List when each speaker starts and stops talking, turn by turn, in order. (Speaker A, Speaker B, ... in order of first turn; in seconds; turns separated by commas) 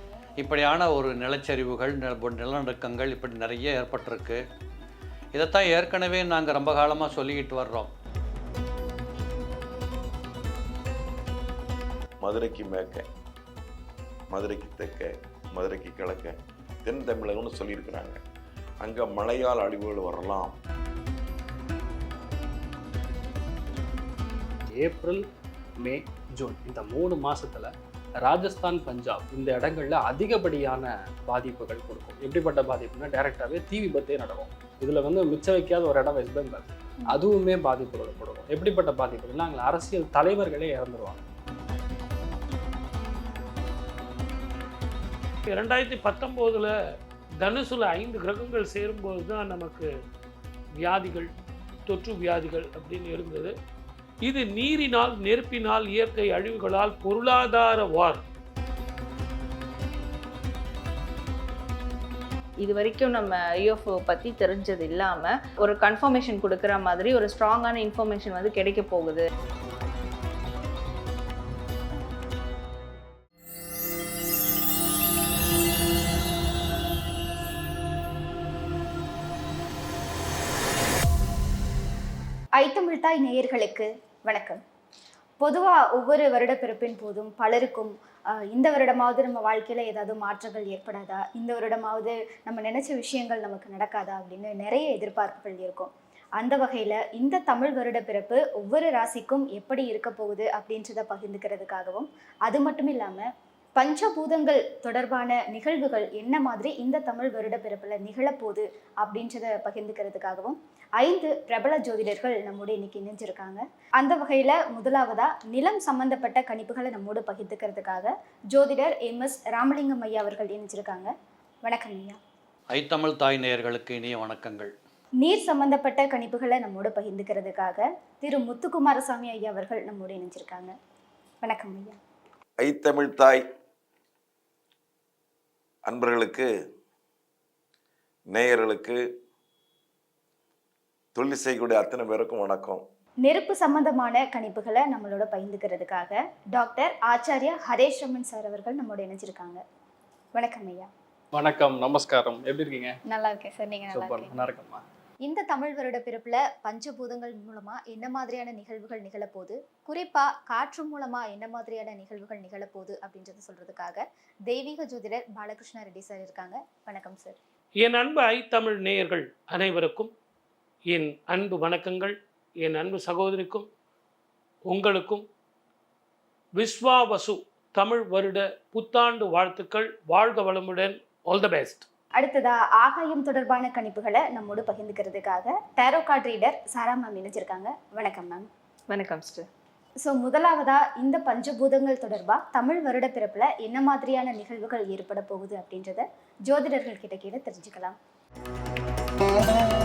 Speaker A: 0.4-4.4, Speaker A: 5.3-7.9, Speaker B: 12.2-13.0, Speaker B: 14.3-16.3, Speaker B: 16.8-18.2, Speaker B: 18.8-20.5, Speaker C: 24.8-25.2, Speaker C: 25.8-41.2, Speaker D: 45.5-46.7, Speaker D: 47.4-49.9, Speaker D: 50.8-51.3, Speaker D: 51.9-53.5, Speaker D: 54.2-58.2, Speaker E: 62.6-69.2, Speaker F: 82.6-84.6, Speaker F: 85.4-87.9, Speaker F: 88.5-103.2, Speaker F: 103.8-121.1, Speaker F: 121.6-122.2, Speaker A: 122.7-124.7, Speaker F: 125.2-130.7, Speaker F: 131.4-132.0, Speaker B: 132.6-133.4, Speaker B: 135.9-136.5, Speaker B: 138.3-139.0, Speaker B: 141.1-142.8, Speaker F: 143.2-149.6, Speaker F: 150.3-150.9, Speaker C: 151.3-153.0, Speaker F: 153.1-154.3, Speaker C: 153.9-154.8, Speaker F: 155.2-167.4, Speaker D: 167.8-170.1, Speaker D: 170.9-173.7, Speaker D: 174.7-175.2, Speaker D: 176.6-181.9, Speaker F: 182.2-188.5, Speaker E: 188.9-189.4, Speaker F: 190.0-197.9